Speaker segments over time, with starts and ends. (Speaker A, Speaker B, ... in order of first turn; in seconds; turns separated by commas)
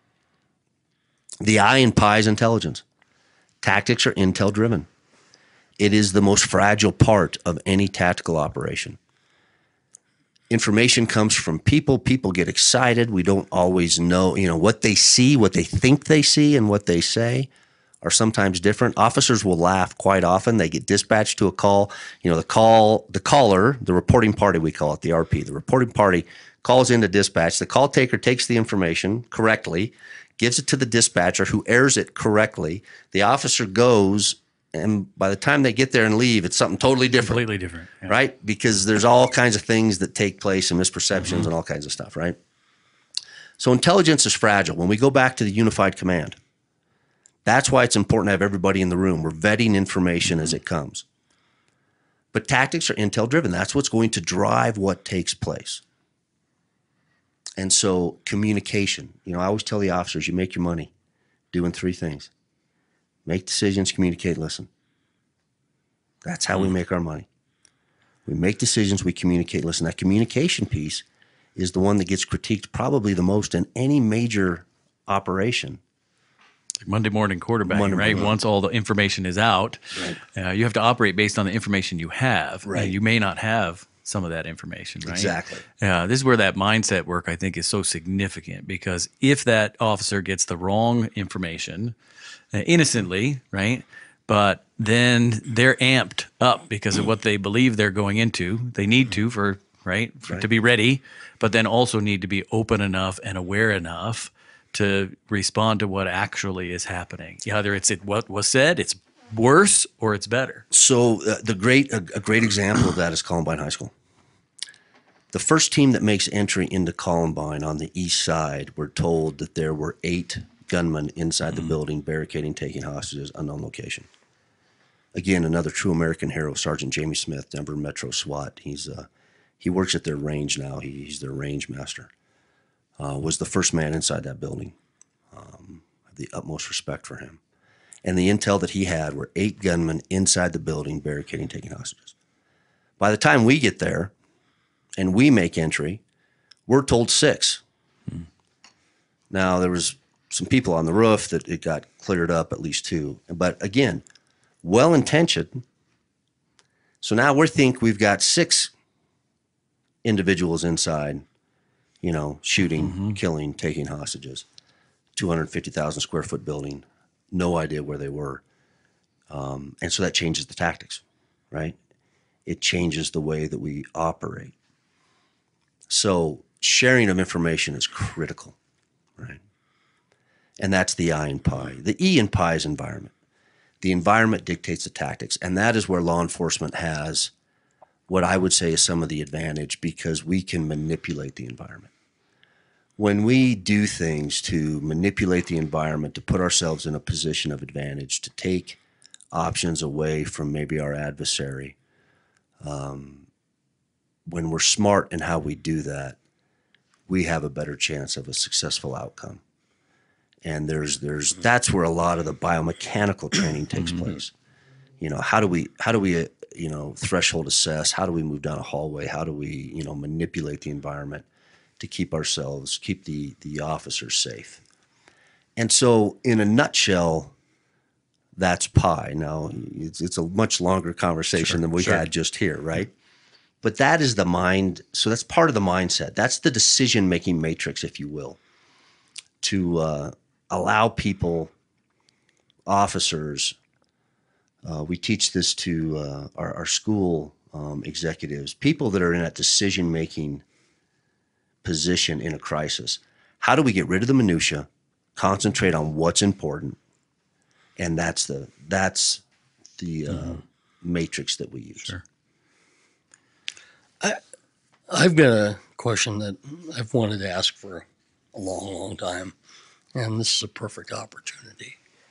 Speaker A: 1.4-2.8, Speaker A: 3.6-4.9, Speaker A: 5.8-9.0, Speaker A: 10.5-17.5, Speaker A: 18.0-37.4, Speaker B: 37.2-38.1, Speaker A: 38.1-42.4, Speaker A: 43.6-46.4, Speaker A: 47.4-51.0, Speaker A: 52.3-55.8, Speaker A: 57.6-60.9, Speaker A: 61.5-62.3, Speaker A: 63.2-64.7, Speaker A: 66.2-67.3, Speaker A: 68.2-71.0, Speaker A: 71.5-75.8, Speaker B: 76.8-91.9, Speaker A: 77.7-78.3, Speaker A: 82.6-82.9, Speaker A: 85.0-85.6, Speaker B: 92.5-110.6, Speaker A: 110.7-113.9, Speaker A: 115.3-124.1, Speaker A: 125.1-129.1, Speaker A: 129.6-132.1, Speaker A: 133.0-134.8, Speaker A: 135.3-137.4, Speaker A: 138.0-142.1, Speaker A: 143.0-144.1, Speaker A: 145.0-146.0, Speaker A: 146.7-147.6, Speaker A: 149.3-154.0, Speaker A: 154.6-155.6, Speaker A: 157.0-158.7, Speaker A: 160.0-161.2, Speaker A: 162.0-164.4, Speaker B: 162.8-163.1, Speaker A: 165.2-168.4, Speaker A: 169.3-171.8, Speaker A: 172.4-174.5, Speaker A: 175.9-178.6, Speaker A: 180.6-183.1, Speaker A: 183.8-187.3, Speaker A: 188.1-191.9, Speaker A: 193.0-198.8, Speaker A: 199.3-201.8, Speaker A: 202.6-203.3, Speaker A: 204.3-206.2, Speaker A: 207.1-209.4, Speaker A: 210.4-214.3, Speaker A: 215.0-221.3, Speaker A: 221.8-224.6, Speaker A: 225.6-227.3, Speaker A: 228.3-232.9, Speaker B: 231.4-232.0, Speaker A: 233.6-238.4, Speaker A: 239.4-241.5, Speaker A: 242.7-243.6, Speaker A: 244.6-250.4, Speaker A: 251.6-256.8, Speaker A: 257.8-259.2, Speaker A: 259.8-261.9, Speaker C: 264.9-269.3, Speaker C: 269.9-271.8